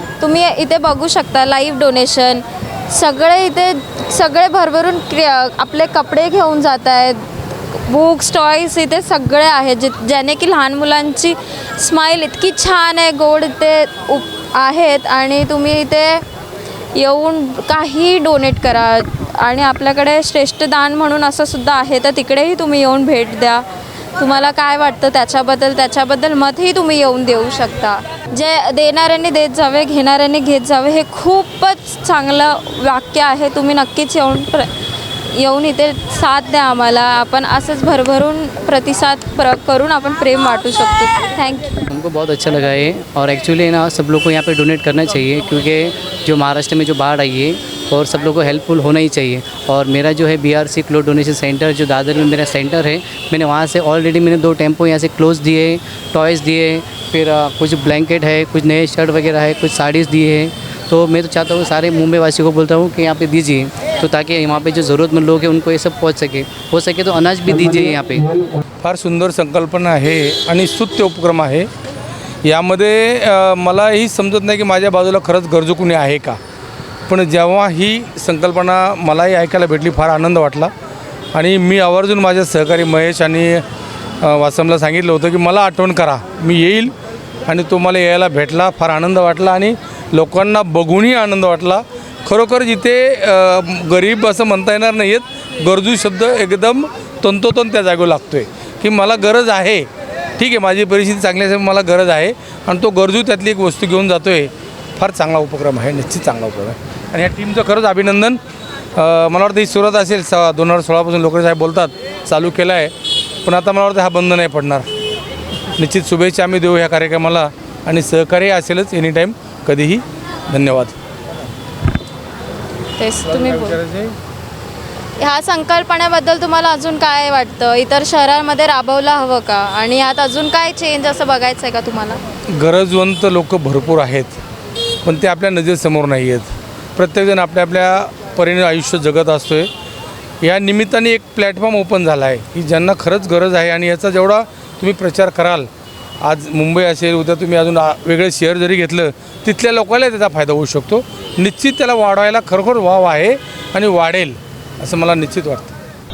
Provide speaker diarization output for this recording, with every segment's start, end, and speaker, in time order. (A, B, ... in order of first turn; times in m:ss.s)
0:00.2-0:07.2 A
0:07.9-0:16.2 A
0:17.0-0:23.7 A
0:24.2-0:34.7 A
0:35.4-0:41.8 A
0:41.9-1:08.3 B
1:08.8-1:11.7 C
1:12.4-1:16.4 C
1:17.1-1:20.7 C
1:21.3-1:23.6 C
1:24.2-1:26.9 C
1:27.5-1:39.9 C
1:40.4-1:48.4 C
1:49.0-1:52.9 C
1:53.4-1:54.8 C
1:55.8-2:01.0 C
2:03.0-2:03.8 A
2:03.3-2:04.1 C
2:05.2-2:12.2 A
2:12.6-2:14.4 C
2:15.0-2:19.7 C
2:20.4-2:25.7 C
2:26.2-2:35.7 C